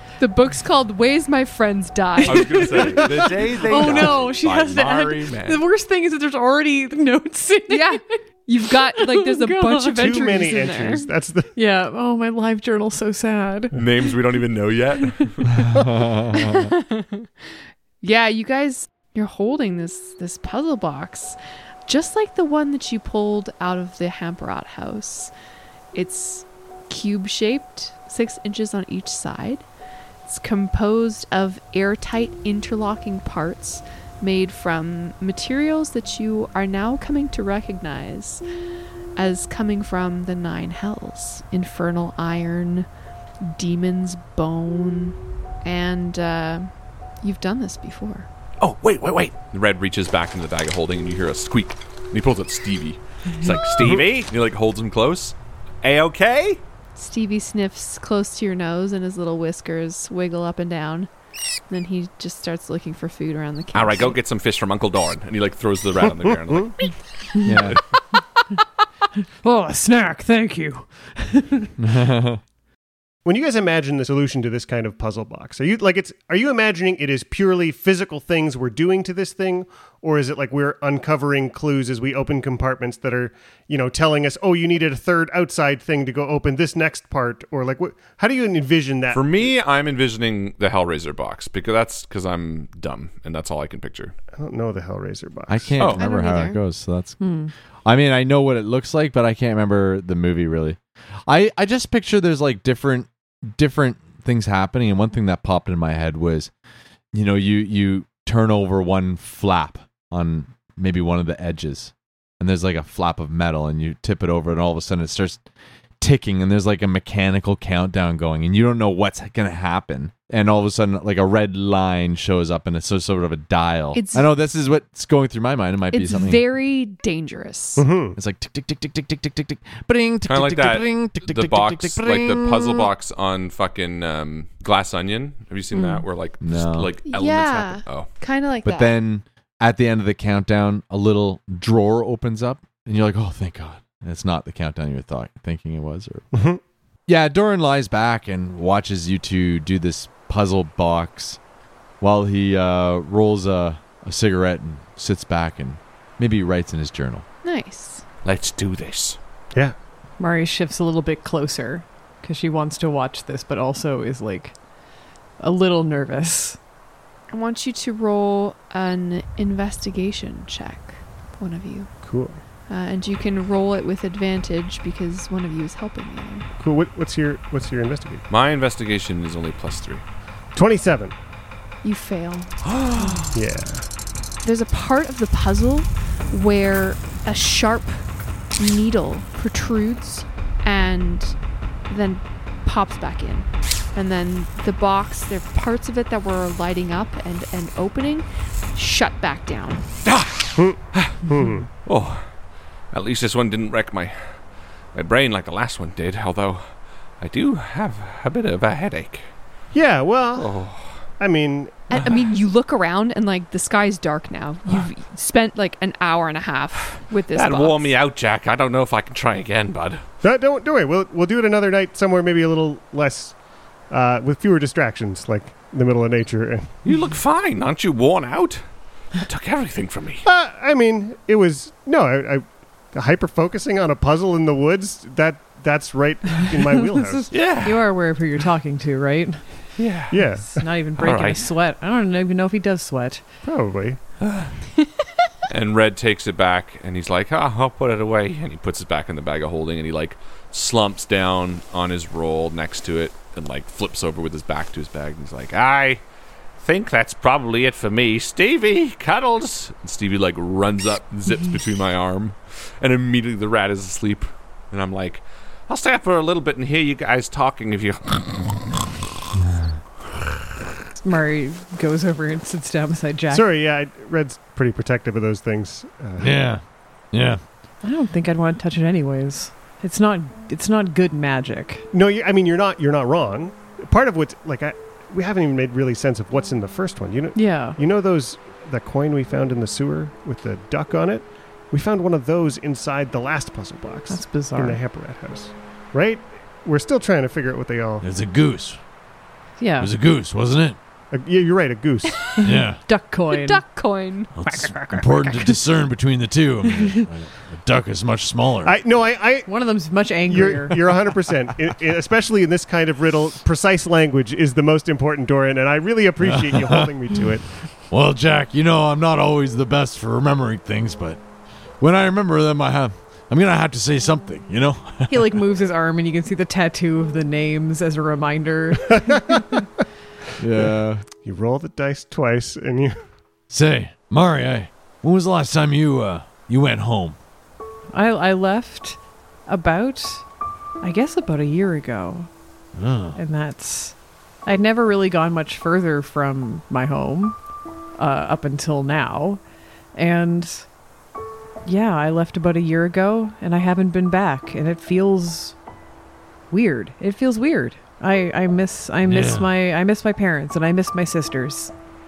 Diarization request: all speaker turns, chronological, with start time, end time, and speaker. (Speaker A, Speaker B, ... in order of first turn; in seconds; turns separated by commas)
Speaker A: 0.2-3.0, Speaker B: 2.2-5.6, Speaker C: 3.0-3.4, Speaker D: 3.6-8.0, Speaker A: 7.7-11.1, Speaker D: 9.0-10.3, Speaker C: 10.0-11.5, Speaker D: 11.5-13.7, Speaker B: 13.7-15.5, Speaker E: 15.7-16.7, Speaker A: 16.3-17.3, Speaker A: 18.0-25.3, Speaker A: 25.9-29.6, Speaker A: 30.3-38.4, Speaker A: 39.2-42.9, Speaker A: 43.4-48.3, Speaker B: 48.6-56.6, Speaker A: 57.0-61.1, Speaker A: 61.7-64.2, Speaker B: 63.7-67.8, Speaker C: 66.2-66.7, Speaker E: 67.4-67.8, Speaker D: 69.4-71.7, Speaker E: 71.8-72.4, Speaker C: 73.2-89.5, Speaker B: 89.1-94.1, Speaker C: 94.3-95.8, Speaker E: 95.5-97.2, Speaker A: 95.8-96.6, Speaker D: 97.2-97.5, Speaker E: 97.8-106.5, Speaker E: 107.1-115.4, Speaker E: 116.0-126.5, Speaker A: 123.9-124.3, Speaker A: 125.9-127.8, Speaker C: 127.8-128.2, Speaker E: 128.2-132.9, Speaker B: 130.3-138.1, Speaker D: 135.7-136.0, Speaker E: 136.4-136.9, Speaker A: 137.1-139.0, Speaker E: 138.6-146.3, Speaker C: 146.3-146.6, Speaker E: 147.1-151.4, Speaker E: 152.0-157.2, Speaker A: 157.4-158.0, Speaker B: 158.2-159.2, Speaker D: 160.2-164.6, Speaker D: 165.4-166.6, Speaker A: 167.3-171.9, Speaker C: 172.0-172.4, Speaker A: 172.7-176.5, Speaker C: 176.6-178.2, Speaker B: 178.3-180.0, Speaker C: 180.6-181.1, Speaker A: 181.8-182.6, Speaker B: 182.6-183.3, Speaker C: 183.3-183.9, Speaker A: 184.4-188.0, Speaker A: 188.6-191.4, Speaker A: 191.9-199.9, Speaker B: 200.1-201.2, Speaker C: 200.6-201.7, Speaker B: 201.8-202.2, Speaker B: 202.9-204.4, Speaker B: 204.9-206.7, Speaker B: 207.2-209.3, Speaker C: 209.7-210.5, Speaker B: 210.4-211.0, Speaker C: 211.2-211.8, Speaker A: 211.9-217.9, Speaker B: 217.3-220.0, Speaker C: 220.2-223.4, Speaker C: 223.9-226.7, Speaker B: 226.8-228.6, Speaker B: 229.2-230.2, Speaker C: 230.2-237.3, Speaker D: 236.6-239.6, Speaker B: 237.3-237.9, Speaker B: 239.8-240.2, Speaker C: 240.1-240.6, Speaker D: 240.5-243.2, Speaker B: 241.0-241.4, Speaker C: 243.4-244.0, Speaker B: 244.2-244.5, Speaker B: 245.5-256.0, Speaker B: 256.6-268.7, Speaker D: 271.0-273.5, Speaker C: 273.3-276.5, Speaker F: 276.2-277.4, Speaker D: 277.8-281.9, Speaker C: 281.9-298.1, Speaker D: 287.4-287.8, Speaker D: 294.1-294.8, Speaker F: 298.0-298.8, Speaker D: 299.6-299.9, Speaker F: 299.8-300.8, Speaker C: 301.1-302.2, Speaker D: 302.4-303.6, Speaker F: 302.4-302.8, Speaker A: 303.3-305.6, Speaker F: 304.4-308.7, Speaker C: 308.6-309.5, Speaker D: 309.4-311.0, Speaker C: 310.3-317.5, Speaker F: 316.2-316.9, Speaker F: 317.9-321.2, Speaker F: 321.8-325.4, Speaker D: 325.1-329.4, Speaker C: 328.9-329.6, Speaker E: 330.4-331.0, Speaker C: 330.6-333.0, Speaker F: 333.5-337.2, Speaker D: 337.9-340.3, Speaker D: 340.8-342.3, Speaker F: 342.8-343.2, Speaker D: 343.1-347.4, Speaker D: 348.0-349.4, Speaker D: 349.9-350.7, Speaker D: 351.6-355.6, Speaker D: 356.5-361.7, Speaker F: 359.0-359.5